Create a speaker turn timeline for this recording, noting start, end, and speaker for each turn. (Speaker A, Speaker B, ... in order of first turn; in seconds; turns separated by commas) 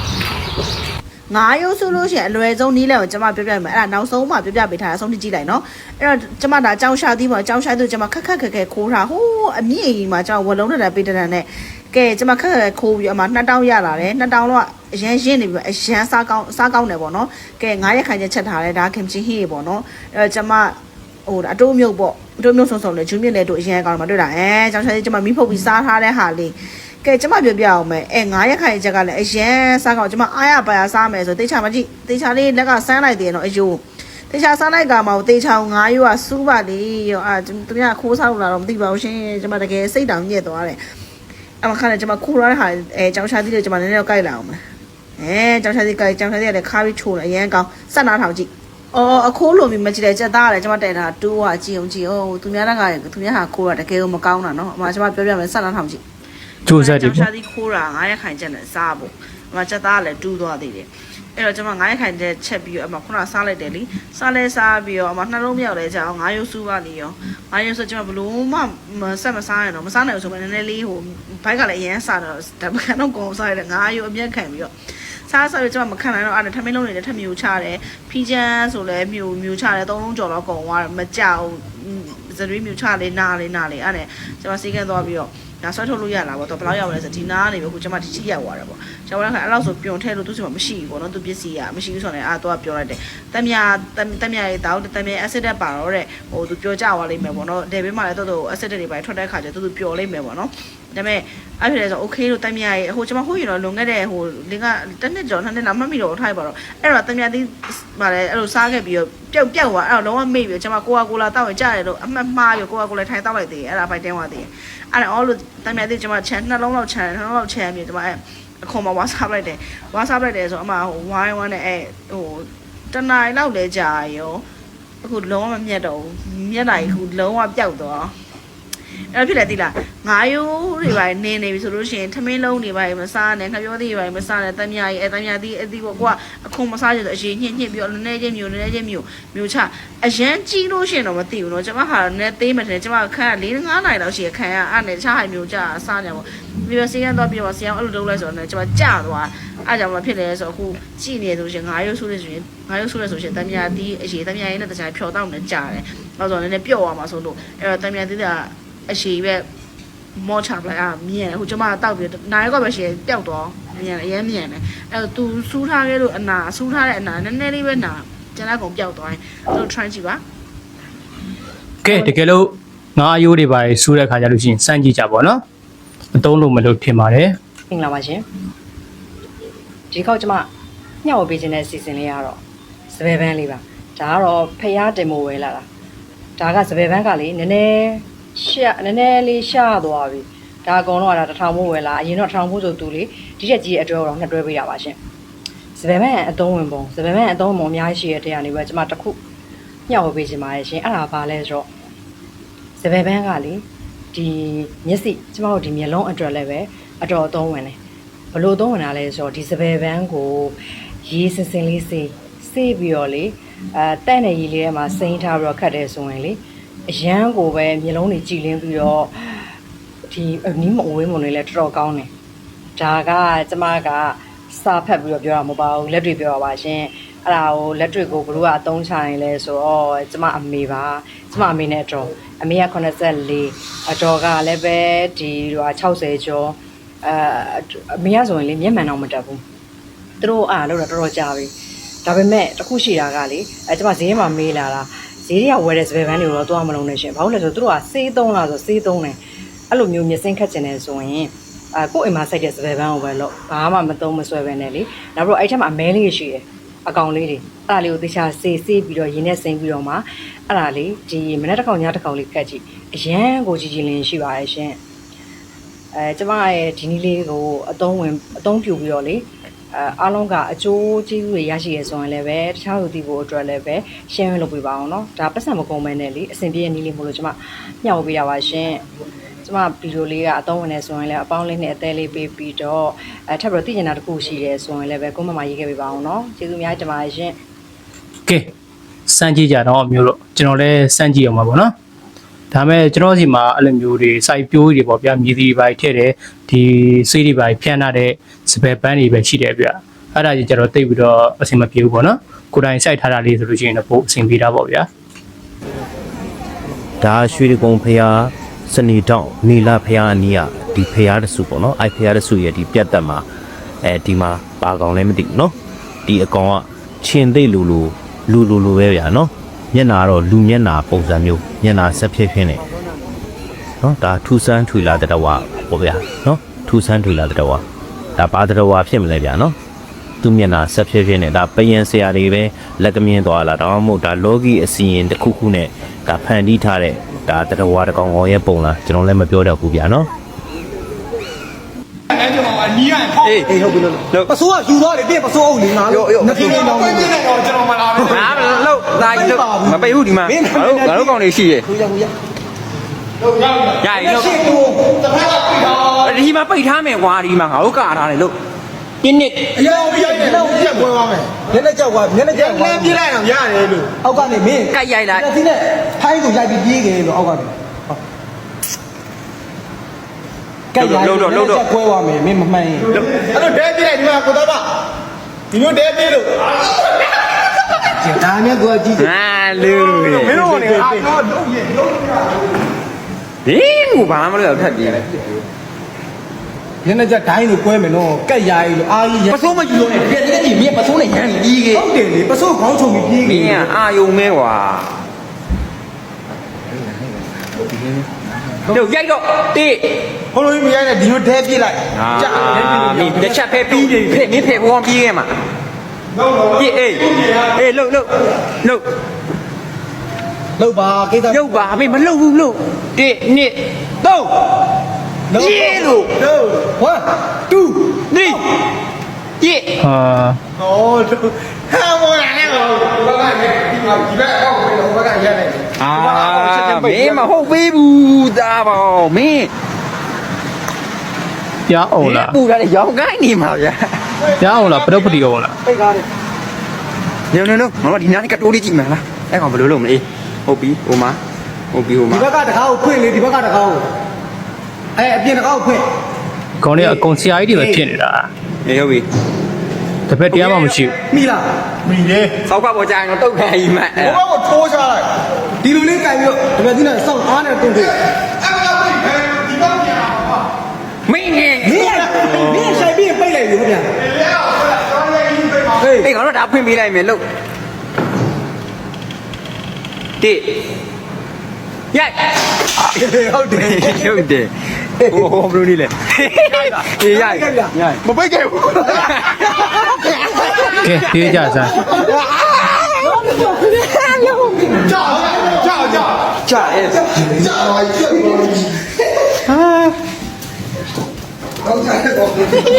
Speaker A: 1.3-20.8, Speaker A: 21.3-40.8, Speaker A: 41.6-44.6, Speaker A: 45.2-56.0, Speaker B: 56.6-57.3, Speaker A: 56.7-74.7, Speaker A: 75.3-124.4, Speaker A: 125.0-128.1, Speaker A: 129.1-159.5, Speaker A: 160.2-170.2, Speaker B: 171.8-175.4, Speaker B: 176.1-177.3, Speaker C: 177.7-178.2, Speaker C: 179.9-180.5, Speaker C: 181.0-182.4, Speaker C: 182.9-185.7, Speaker C: 186.4-195.0, Speaker C: 195.8-199.2, Speaker C: 199.9-201.7, Speaker C: 202.8-207.8, Speaker C: 208.3-219.5, Speaker C: 220.1-222.1, Speaker C: 222.8-239.4, Speaker C: 240.2-241.5, Speaker C: 242.1-249.2, Speaker C: 249.7-264.8, Speaker C: 265.9-278.9, Speaker C: 279.4-287.4, Speaker B: 289.1-291.7, Speaker B: 292.5-304.9, Speaker D: 307.0-313.2, Speaker D: 313.8-315.6, Speaker D: 316.1-322.6, Speaker D: 323.8-327.6, Speaker D: 328.2-329.6, Speaker D: 330.2-340.1, Speaker E: 342.9-348.2, Speaker F: 343.2-344.3, Speaker F: 345.9-346.6, Speaker F: 348.1-351.7, Speaker E: 349.0-351.2, Speaker E: 351.7-352.1, Speaker F: 353.8-354.6, Speaker E: 354.0-355.0, Speaker F: 355.6-358.4, Speaker F: 359.0-359.6, Speaker E: 359.6-368.0, Speaker F: 364.7-365.3, Speaker E: 370.7-374.6, Speaker F: 370.8-371.6, Speaker E: 375.5-376.3, Speaker E: 378.0-379.0, Speaker F: 378.9-380.4, Speaker E: 380.3-381.4, Speaker F: 383.4-385.1, Speaker E: 386.8-393.6, Speaker F: 389.3-390.2, Speaker F: 390.8-391.9, Speaker F: 393.2-394.9, Speaker F: 398.7-400.0, Speaker E: 400.4-401.8, Speaker F: 401.9-405.3, Speaker F: 406.5-408.9, Speaker E: 410.6-411.6, Speaker F: 411.3-413.6, Speaker E: 414.0-414.3, Speaker E: 415.3-418.4, Speaker F: 415.4-416.1, Speaker F: 418.1-418.4, Speaker F: 419.4-419.8, Speaker B: 419.8-420.4, Speaker E: 420.6-425.5, Speaker F: 425.8-429.5, Speaker E: 426.1-427.2, Speaker B: 431.7-432.4, Speaker F: 432.0-434.0, Speaker B: 434.4-435.5, Speaker E: 435.6-436.1, Speaker F: 437.3-441.2, Speaker F: 441.7-442.3, Speaker E: 442.1-443.8, Speaker E: 445.0-445.8, Speaker B: 446.6-448.3, Speaker E: 446.8-447.8, Speaker F: 448.6-449.1, Speaker B: 450.1-450.9, Speaker E: 450.3-452.3, Speaker F: 452.4-454.2, Speaker E: 454.1-455.0, Speaker E: 455.6-458.0, Speaker F: 461.1-462.9, Speaker E: 461.6-463.9, Speaker E: 465.7-466.1, Speaker F: 466.0-467.2, Speaker F: 470.2-470.5, Speaker F: 471.9-472.2, Speaker F: 472.8-479.7, Speaker E: 473.0-474.0, Speaker E: 477.4-477.9, Speaker B: 480.8-481.8, Speaker F: 480.8-484.9, Speaker F: 486.4-487.4